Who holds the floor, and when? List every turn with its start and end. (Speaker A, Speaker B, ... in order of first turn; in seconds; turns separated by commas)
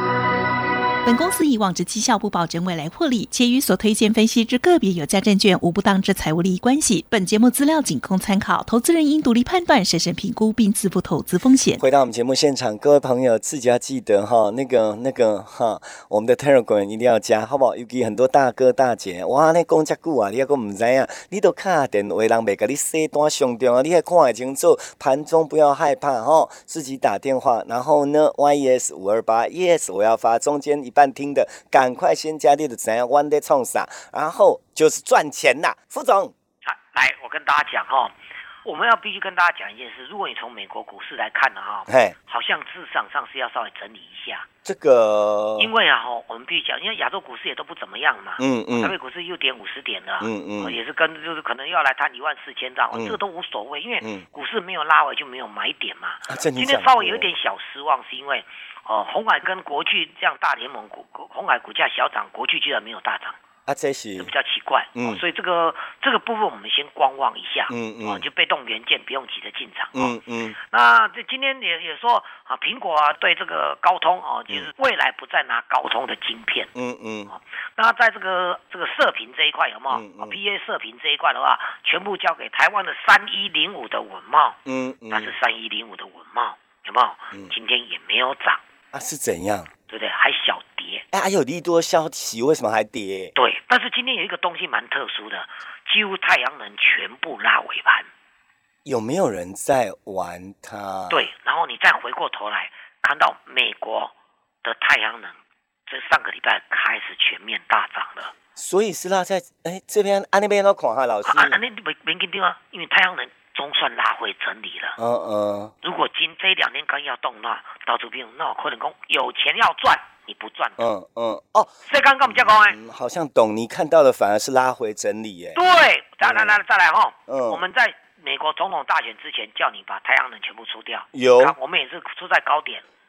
Speaker A: 1.1-11.8, Speaker B: 11.8-36.3, Speaker C: 36.6-44.5, Speaker B: 41.9-42.2, Speaker B: 44.6-45.7, Speaker C: 45.6-63.4, Speaker B: 48.4-49.0, Speaker B: 50.2-50.8, Speaker B: 52.9-53.2, Speaker B: 56.3-57.3, Speaker B: 63.7-64.3, Speaker C: 64.2-76.7, Speaker B: 65.0-65.2, Speaker B: 67.7-68.3, Speaker B: 69.9-70.6, Speaker B: 76.8-77.3, Speaker C: 77.3-84.6, Speaker B: 79.9-80.4, Speaker B: 84.7-85.3, Speaker C: 85.1-88.6, Speaker B: 88.9-89.7, Speaker C: 89.9-91.0, Speaker B: 91.1-93.3, Speaker C: 93.3-98.1, Speaker B: 98.8-101.3, Speaker C: 101.1-108.3, Speaker B: 108.6-111.6, Speaker C: 111.2-115.0, Speaker B: 115.0-115.7, Speaker C: 115.8-120.8, Speaker B: 120.8-121.7, Speaker C: 121.8-122.8, Speaker B: 122.2-125.6, Speaker C: 125.5-132.8, Speaker B: 126.2-126.6, Speaker B: 127.3-127.6, Speaker B: 131.1-131.6